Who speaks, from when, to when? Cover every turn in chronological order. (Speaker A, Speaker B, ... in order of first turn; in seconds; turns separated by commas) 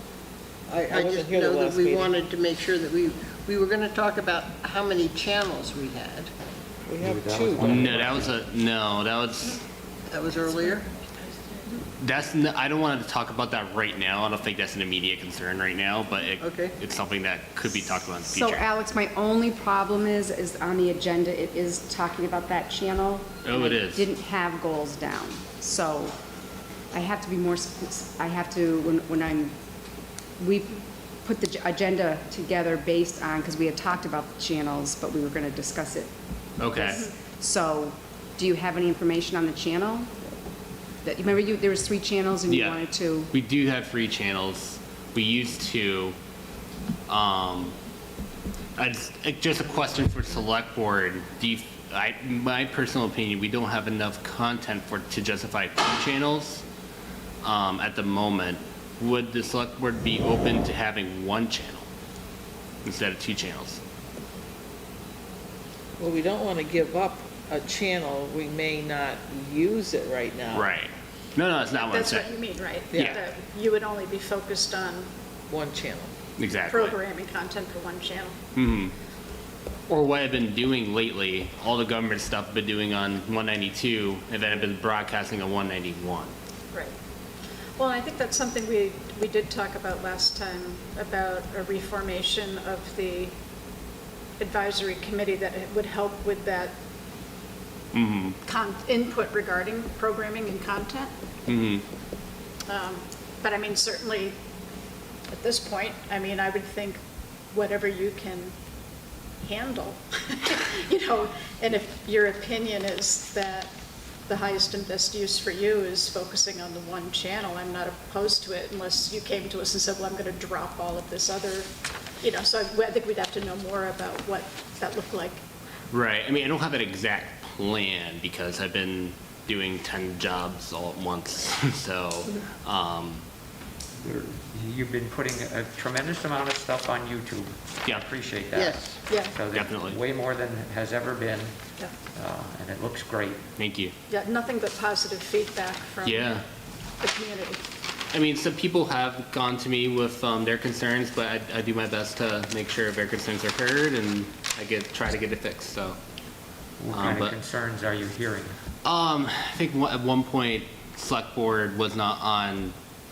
Speaker A: 0.7-6.3, Speaker B: 0.9-2.1, Speaker B: 6.9-8.0, Speaker C: 7.0-8.4, Speaker D: 7.6-9.6, Speaker A: 10.1-10.9, Speaker D: 12.0-18.6, Speaker A: 16.4-16.8, Speaker E: 18.2-26.2, Speaker D: 23.4-24.0, Speaker E: 26.9-29.5, Speaker E: 30.4-36.1, Speaker D: 36.6-37.0, Speaker E: 36.7-40.1, Speaker E: 41.0-43.3, Speaker D: 42.5-46.2, Speaker D: 47.1-47.8, Speaker D: 48.8-56.6, Speaker D: 57.4-61.9, Speaker D: 62.8-63.8, Speaker B: 66.0-70.7, Speaker D: 70.5-72.3, Speaker F: 71.7-75.1, Speaker B: 72.9-73.2, Speaker D: 72.9-73.2, Speaker B: 75.5-76.1, Speaker D: 76.4-77.0, Speaker F: 76.7-78.4, Speaker D: 78.5-78.9, Speaker D: 79.9-86.3, Speaker F: 87.8-93.3, Speaker F: 94.4-96.7, Speaker D: 97.9-98.4, Speaker F: 98.5-101.1, Speaker D: 101.5-101.8, Speaker F: 102.7-104.3, Speaker F: 105.3-108.5, Speaker F: 109.4-113.7, Speaker F: 114.3-121.7, Speaker F: 122.2-125.4, Speaker D: 125.9-133.2, Speaker C: 134.0-141.6, Speaker A: 138.5-139.0, Speaker F: 139.1-139.4, Speaker D: 139.5-140.0, Speaker C: 142.1-143.4, Speaker D: 143.6-143.9, Speaker F: 144.1-146.4, Speaker D: 146.0-146.4, Speaker F: 147.0-147.6, Speaker D: 148.1-156.0, Speaker C: 156.8-158.6, Speaker D: 156.9-157.4, Speaker D: 158.8-162.7